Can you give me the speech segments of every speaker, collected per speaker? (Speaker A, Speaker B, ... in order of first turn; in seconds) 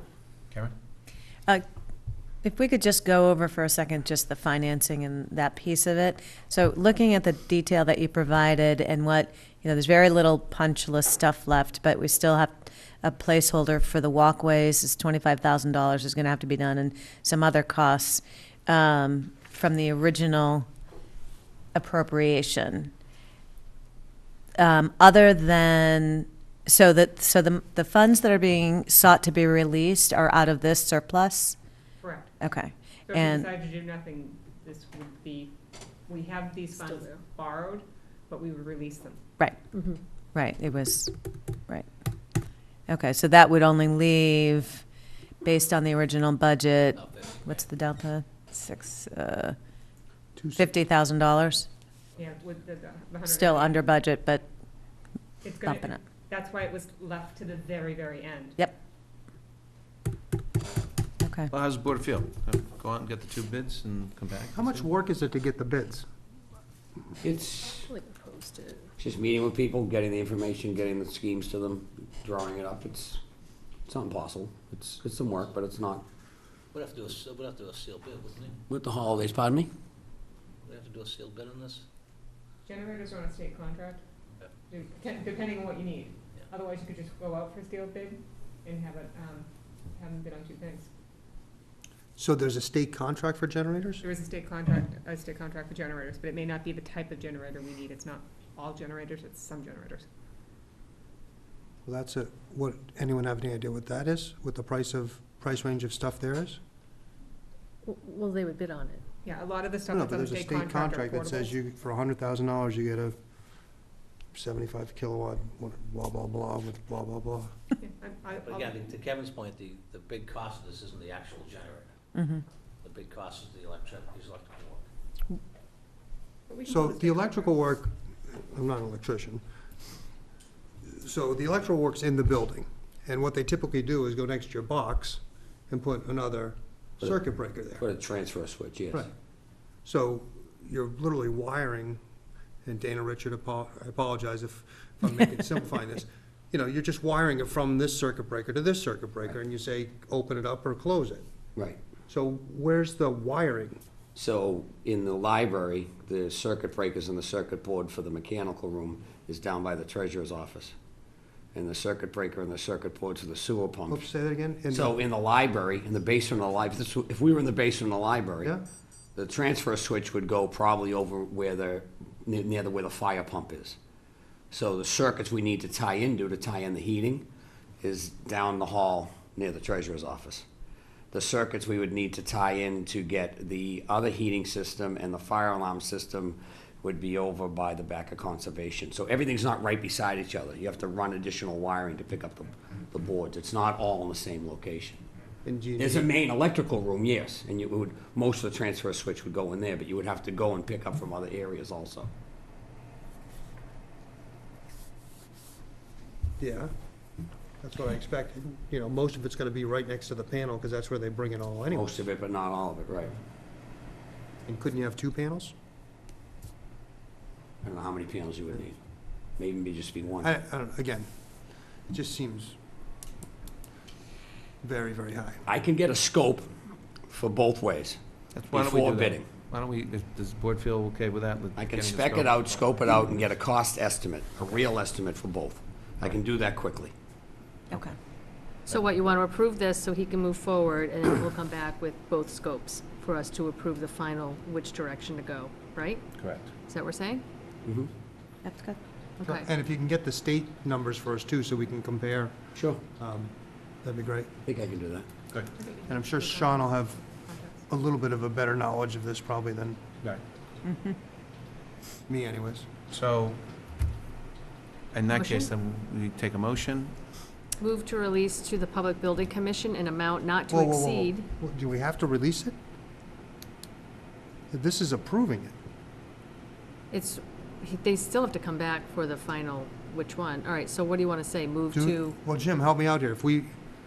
Speaker A: 2.4-20.7, 21.8-22.9, 24.6-31.6, 32.4-33.5, 40.3-41.1, 42.9-44.8, 45.4-49.6, 50.6-51.7, 53.2-54.5, 55.6-56.0, 61.2-61.5, 122.2-122.4, 248.4-248.8, 260.7-260.9
Speaker B: 32.0-32.3, 33.1-35.5, 36.1-39.2, 52.2-53.8, 55.4-58.6, 82.7-84.0, 84.7-90.9, 94.0-100.1, 109.2-111.5, 117.8-118.8, 126.5-127.6, 255.6-257.7
Speaker C: 36.8-37.0, 39.7-40.0, 67.8-68.9, 107.8-109.0, 238.7-247.3, 249.2-249.5, 265.1-265.5, 267.6-271.3, 276.9-282.2
Speaker D: 47.0-47.4, 76.7-78.6, 80.7-81.8, 118.4-121.9, 122.8-124.8
Speaker E: 50.4-50.7, 64.5-66.1, 92.2-94.0, 101.8-106.6, 109.9-113.2, 114.3-117.5, 126.7-129.4, 130.8-137.8, 139.8-142.0, 142.7-151.2, 152.1-153.8, 163.9-165.0, 195.4-196.1, 206.4-206.7, 207.6-212.1, 214.5-215.5, 220.2-221.1, 221.9-222.6, 224.6-225.4, 249.2-254.3, 255.9-257.0, 257.7-259.9, 262.1-262.7, 270.5-272.6, 274.5-275.6, 281.7-283.6
Speaker F: 61.5-64.9, 228.3-233.1, 246.2-246.5, 262.9-263.4, 264.9-267.0
Speaker G: 67.2-67.9, 69.0-73.2, 73.9-76.0, 78.7-79.7, 137.7-139.1, 154.2-160.8, 161.5-164.1, 164.7-168.5, 169.2-173.8, 174.5-177.3, 177.8-180.4, 181.1-195.0, 195.8-202.1, 211.7-213.2, 217.6-218.8, 219.4-220.3, 225.4-226.6, 227.1-229.3, 231.6-236.9, 247.6-247.9, 252.6-252.8, 254.4-255.1